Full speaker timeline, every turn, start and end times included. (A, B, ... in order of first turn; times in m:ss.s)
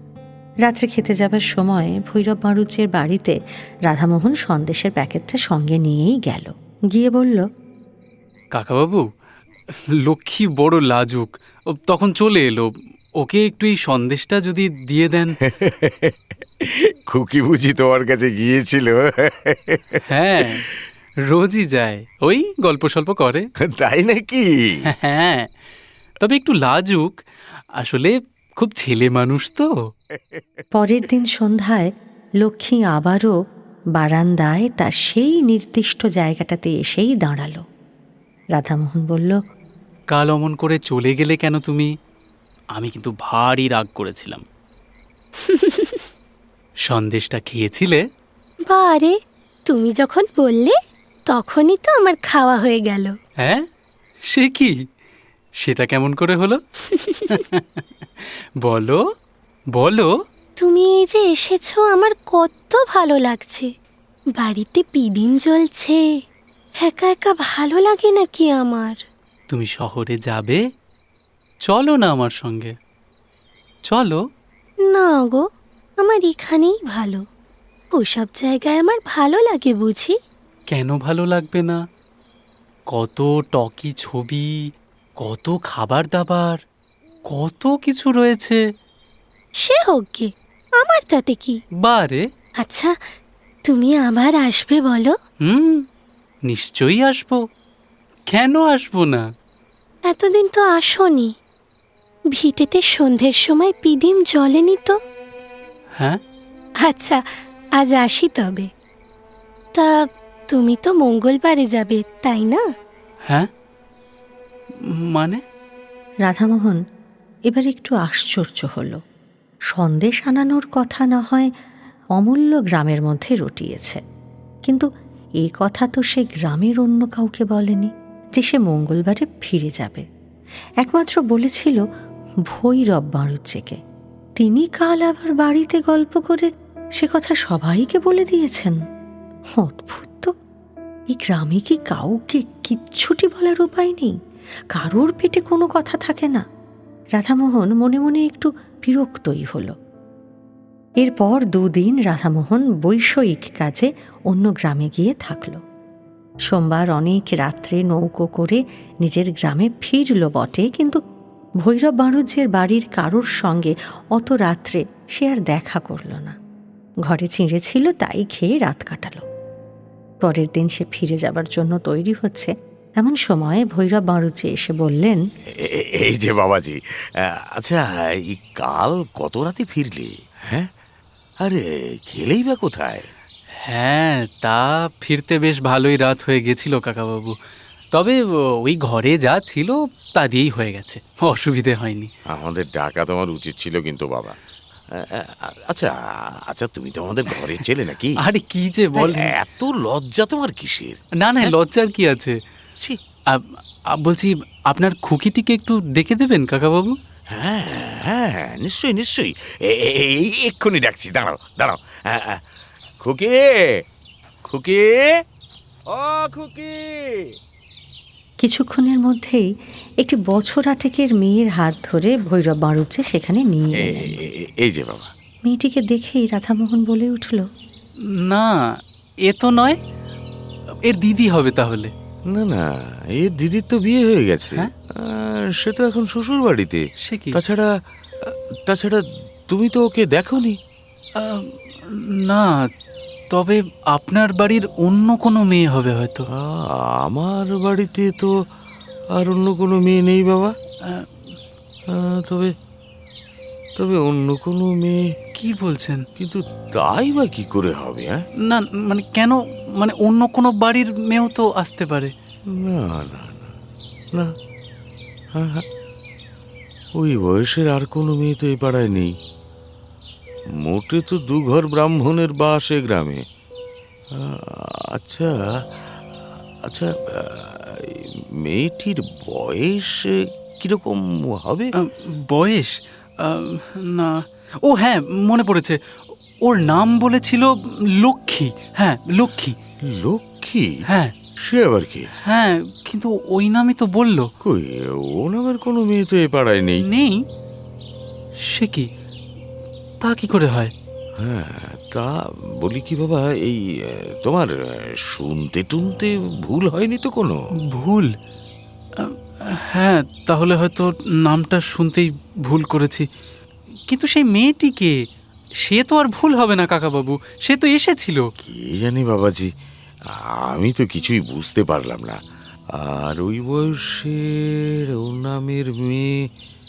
0:00.6-0:03.3 A
0:03.9-0:07.4 A
0:08.5-0:09.1 B
0:10.1-0:12.7 B
0:13.2-0:15.4 B
0:15.5-0:20.6 C
0:20.1-0:20.6 B
0:21.3-0:23.4 B
0:23.8-0:24.8 C
0:24.9-0:25.5 B
0:26.2-0:27.2 B
0:27.8-0:29.7 B
0:30.8-0:31.9 A
0:32.4-0:33.3 A
0:34.0-0:37.6 A
0:38.6-0:39.4 A
0:40.1-0:41.9 B
0:42.8-0:44.4 B
0:45.4-0:46.1 D
0:46.9-0:48.0 B
0:48.7-0:49.2 D
0:49.7-0:50.8 D
0:51.3-0:53.1 D
0:54.3-0:54.8 B
0:55.6-0:56.6 B
0:56.9-0:57.4 D
0:57.3-0:59.0 B
0:59.8-1:00.1 B
1:00.6-1:03.7 D
1:04.4-1:06.0 D
1:06.8-1:09.0 D
1:09.5-1:10.6 B
1:11.7-1:12.8 B
1:13.9-1:14.2 B
1:14.8-1:15.5 D
1:16.0-1:17.2 D
1:18.0-1:20.2 D
1:20.7-1:21.8 B
1:22.9-1:24.6 B
1:25.2-1:26.6 B
1:27.3-1:28.6 B
1:29.6-1:31.6 D
1:31.8-1:32.3 B
1:32.6-1:32.9 D
1:33.6-1:35.2 D
1:35.4-1:35.9 B
1:36.5-1:37.4 B
1:38.3-1:39.3 B
1:40.1-1:41.4 D
1:42.3-1:45.0 D
1:46.8-1:47.2 D
1:47.8-1:48.7 D
1:49.8-1:52.6 D
1:54.9-1:55.4 B
1:56.2-1:56.8 A
1:57.5-1:59.0 A
1:59.7-2:01.5 A
2:02.2-2:04.0 A
2:05.4-2:10.0 A
2:10.8-2:11.8 A
2:12.5-2:13.8 A
2:14.4-2:18.8 A
2:19.6-2:20.3 A
2:21.1-2:24.2 A
2:24.8-2:26.4 A
2:27.2-2:29.7 A
2:31.0-2:35.6 A
2:36.5-2:41.0 A
2:41.6-2:46.4 A
2:47.1-2:49.2 A
2:50.2-2:55.2 A
2:55.6-3:00.7 C
3:01.4-3:03.1 C
3:03.7-3:07.4 B
3:07.9-3:12.1 B
3:12.3-3:14.4 C
3:15.0-3:15.9 C
3:16.5-3:18.2 C
3:18.2-3:19.4 B
3:19.0-3:21.5 C
3:21.2-3:22.4 B
3:23.3-3:27.0 B
3:27.3-3:32.4 C
3:33.0-3:33.7 C
3:34.5-3:35.2 C
3:35.9-3:37.2 C
3:38.4-3:39.4 A
3:40.0-3:44.2 A
3:43.8-3:45.1 C
3:45.5-3:47.4 A
3:48.2-3:48.6 B
3:49.2-3:49.8 B
3:50.9-3:51.9 B
3:52.3-3:56.8 C
3:57.0-3:57.4 B
3:57.3-3:57.7 C
3:58.3-4:00.6 C
4:01.2-4:02.5 B
4:03.3-4:06.3 B
4:06.4-4:08.3 C
4:09.2-4:10.5 C
4:11.9-4:12.5 C
4:13.8-4:15.0 C
4:15.4-4:16.0 B
4:16.2-4:18.2 C
4:18.5-4:22.1 B
4:22.6-4:23.5 C
4:25.4-4:25.6 C
4:27.0-4:29.1 C
4:30.6-4:33.2 C
4:34.2-4:35.4 C
4:36.7-4:41.7 C
4:41.8-4:45.8 B
4:46.4-4:49.6 B
4:49.9-4:50.7 C
4:50.9-4:51.1 B
4:51.4-4:52.1 C
4:52.3-4:54.3 B
4:54.4-4:56.8 C
4:56.9-4:57.2 B
4:58.5-4:58.9 B
5:00.0-5:00.7 B
5:01.2-5:04.5 C
5:05.0-5:07.4 C
5:07.7-5:08.1 B
5:09.0-5:13.1 B
5:13.9-5:15.0 B
5:15.6-5:18.2 B
5:18.4-5:19.5 C
5:20.1-5:22.2 C
5:22.8-5:26.2 C